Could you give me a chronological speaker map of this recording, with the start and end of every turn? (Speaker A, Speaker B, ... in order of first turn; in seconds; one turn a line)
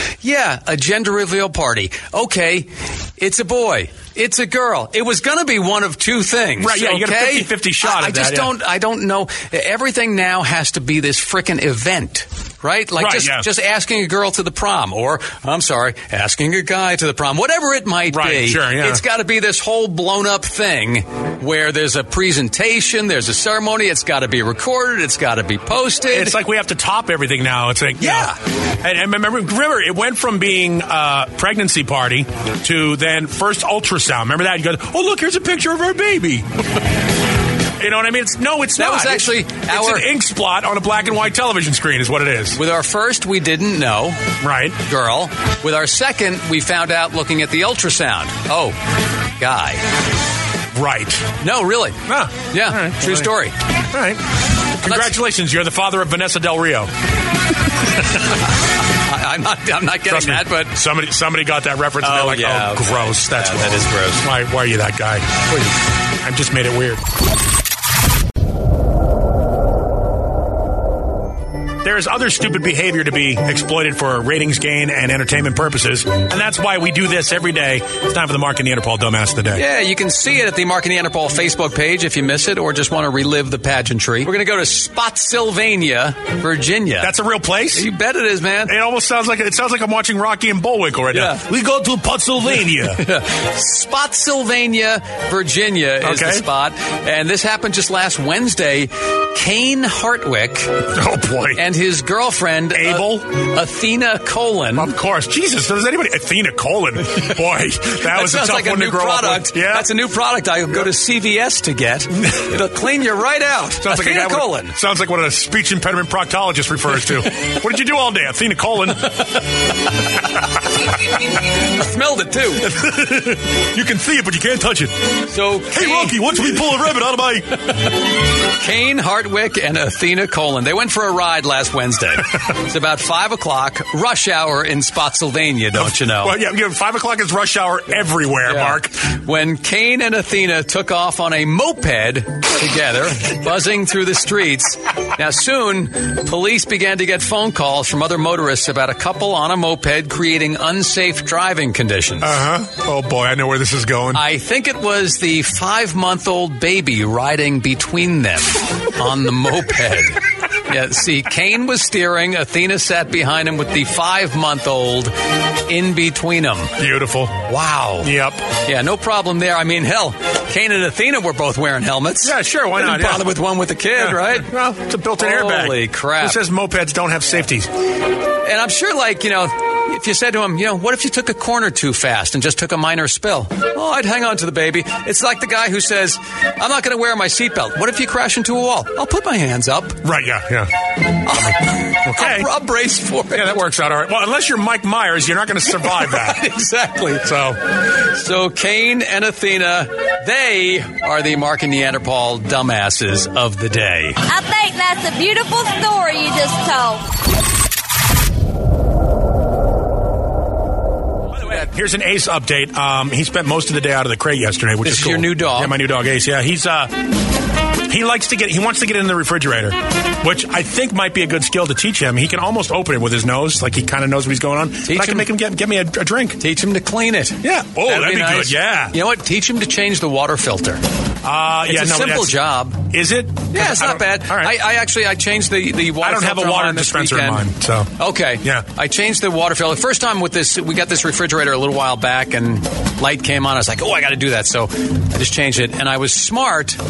Speaker A: 0.2-26.4
Speaker B: 6.6-8.5
Speaker B: 13.0-13.5
Speaker B: 18.1-19.0
Speaker B: 26.1-36.5
Speaker A: 28.0-28.4
Speaker B: 37.8-42.6
Speaker A: 38.8-40.1
Speaker A: 42.5-44.2
Speaker B: 44.4-44.8
Speaker A: 44.8-48.8
Speaker A: 49.4-49.8
Speaker B: 50.8-51.3
Speaker A: 51.4-52.0
Speaker B: 52.1-53.3
Speaker A: 52.5-53.6
Speaker B: 53.9-54.2
Speaker B: 54.8-56.9
Speaker A: 54.8-55.2
Speaker A: 58.7-60.7
Speaker B: 60.1-65.3
Speaker A: 62.0-64.3
Speaker B: 66.2-67.0
Speaker B: 71.8-79.6
Speaker A: 79.5-87.1
Speaker B: 87.0-87.9
Speaker A: 87.7-88.7
Speaker B: 88.7-93.0
Speaker A: 91.1-91.4
Speaker A: 92.5-100.8
Speaker B: 96.0-96.5
Speaker B: 100.9-101.6
Speaker A: 101.6-104.9
Speaker B: 102.7-103.3
Speaker B: 104.7-109.9
Speaker A: 108.0-114.8
Speaker B: 113.8-119.3
Speaker A: 121.3-122.7
Speaker B: 122.6-125.0
Speaker A: 125.3-126.2
Speaker B: 125.7-127.9
Speaker A: 128.3-136.4
Speaker B: 135.8-139.0
Speaker A: 138.5-152.4
Speaker B: 152.2-154.2
Speaker A: 154.1-165.1
Speaker A: 165.7-166.7
Speaker B: 166.8-167.4
Speaker A: 167.5-168.1
Speaker B: 168.0-168.5
Speaker A: 168.6-174.5
Speaker B: 172.2-173.3
Speaker B: 173.9-177.7
Speaker A: 175.2-176.4
Speaker A: 178.4-190.0
Speaker B: 190.0-190.7
Speaker A: 191.2-193.5
Speaker B: 191.3-192.5
Speaker B: 193.3-196.4
Speaker A: 195.7-197.3
Speaker B: 197.2-197.6
Speaker A: 197.9-204.2
Speaker C: 204.3-207.0
Speaker B: 211.4-216.9
Speaker A: 214.8-215.7
Speaker B: 217.9-226.4
Speaker A: 224.8-225.3
Speaker A: 226.4-230.8
Speaker B: 227.4-229.0
Speaker B: 231.2-232.4
Speaker A: 231.7-232.8
Speaker B: 232.9-234.5
Speaker A: 233.5-246.8
Speaker B: 236.0-238.7